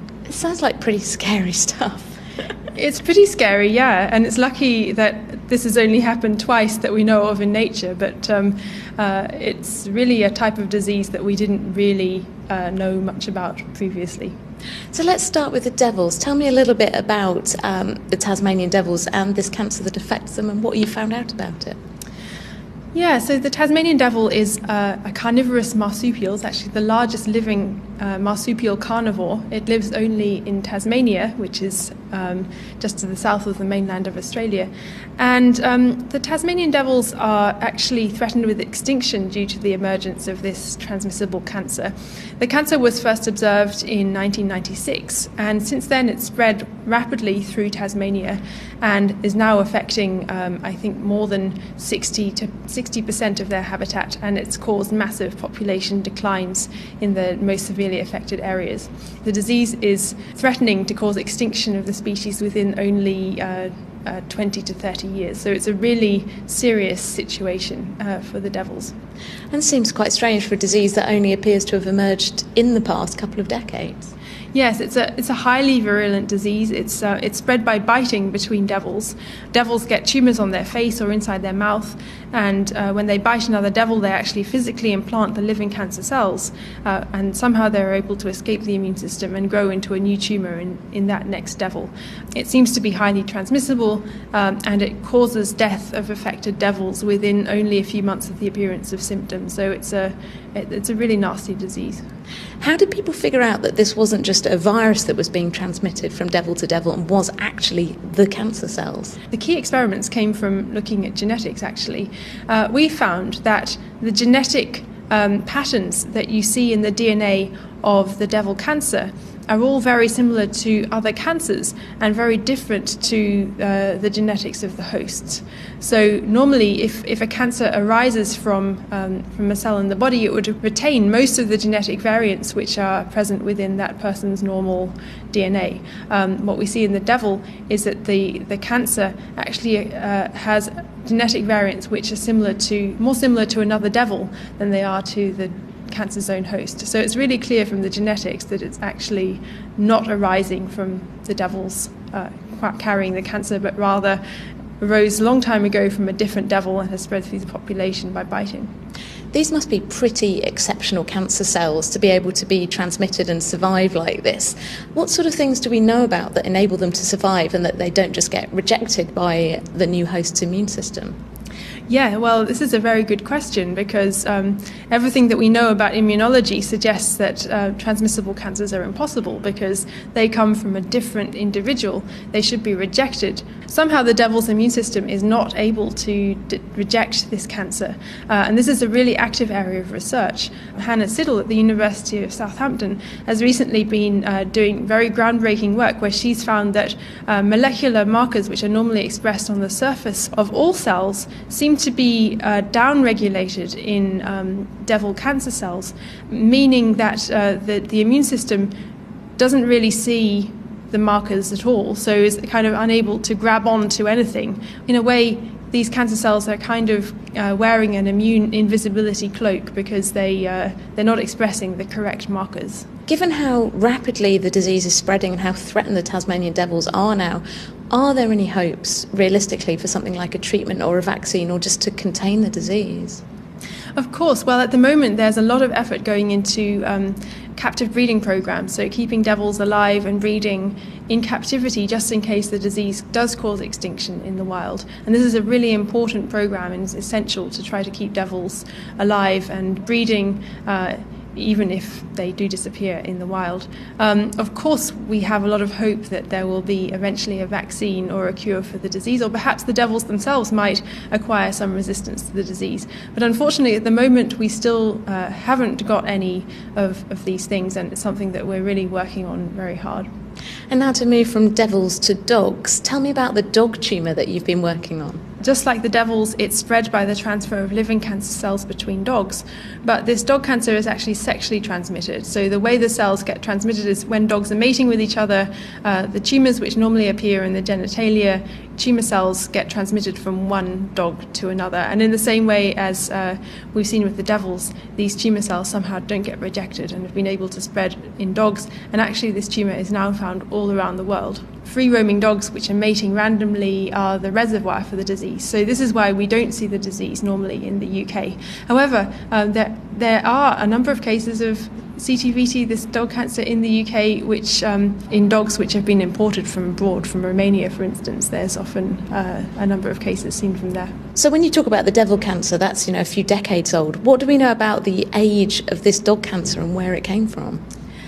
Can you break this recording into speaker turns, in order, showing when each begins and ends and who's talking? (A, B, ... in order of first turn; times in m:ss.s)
0:00.3-0:02.2 A
0:02.7-0:14.3 B
0:14.9-0:21.8 A
0:22.9-1:08.9 B
1:09.5-1:14.1 A
1:14.5-1:42.0 B
1:42.6-1:49.2 A
1:49.3-2:34.2 B
2:34.8-2:38.7 B
2:39.3-2:51.2 A
2:51.9-3:28.7 B
3:29.4-3:42.9 B
3:43.1-3:53.2 A
3:54.0-4:30.1 B
4:30.7-4:35.2 A
4:35.4-5:20.9 B
5:21.2-5:27.6 A